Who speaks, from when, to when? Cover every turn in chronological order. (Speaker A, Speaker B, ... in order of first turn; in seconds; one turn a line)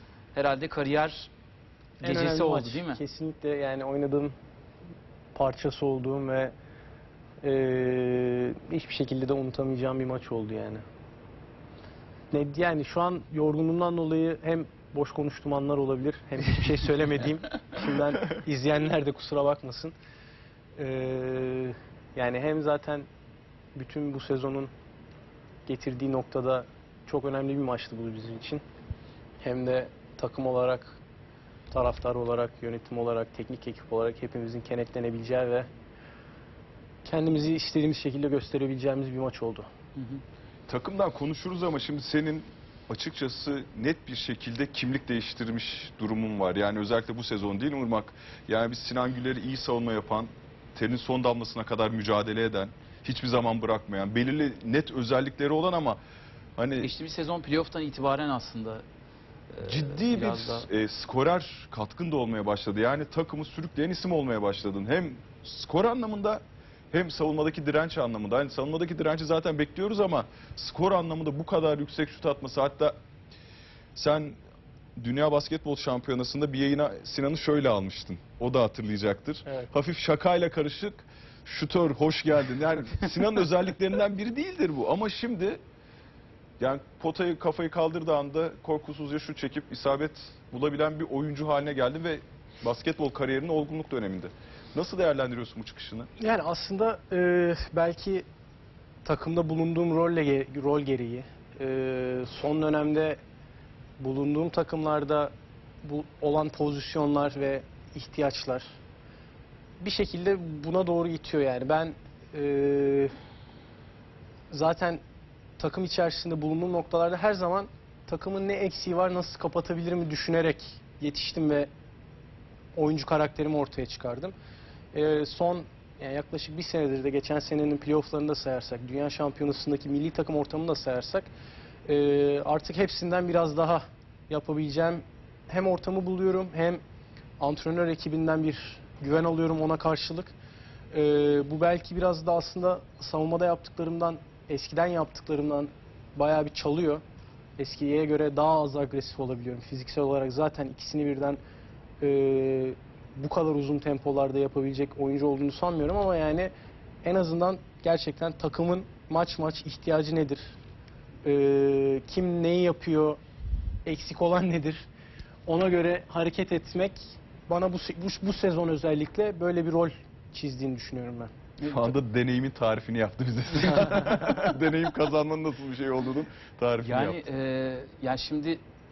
Speaker A: 0.3-1.3
Speaker B: 2.0-4.3
Speaker A: 2.0-3.0
Speaker B: 5.3-6.5
Speaker B: 7.4-10.8
Speaker B: 12.3-19.9
Speaker B: 20.8-23.1
Speaker B: 23.8-24.7
Speaker B: 25.7-28.6
Speaker B: 29.4-31.0
Speaker B: 31.7-35.7
Speaker B: 37.0-39.7
Speaker A: 40.0-40.2
Speaker C: 40.7-56.0
Speaker C: 56.6-56.9
Speaker A: 56.8-58.8
Speaker A: 59.5-60.7
Speaker C: 59.6-73.0
Speaker C: 73.9-74.4
Speaker C: 75.0-85.6
Speaker C: 86.6-96.1
Speaker B: 96.2-98.2
Speaker B: 99.0-103.2
Speaker B: 104.0-108.7
Speaker B: 109.8-113.1
Speaker B: 114.5-115.0
Speaker B: 115.6-121.7
Speaker B: 122.8-124.3
Speaker B: 124.9-131.3
Speaker B: 131.9-136.8
Speaker B: 137.4-140.3
Speaker B: 140.9-147.0
Speaker B: 147.6-151.4
Speaker B: 152.0-156.5
Speaker B: 157.0-160.5
Speaker B: 161.2-163.2
Speaker B: 163.8-164.8
Speaker B: 165.5-171.3
Speaker A: 171.6-171.9
Speaker C: 171.6-177.2
Speaker A: 176.8-178.6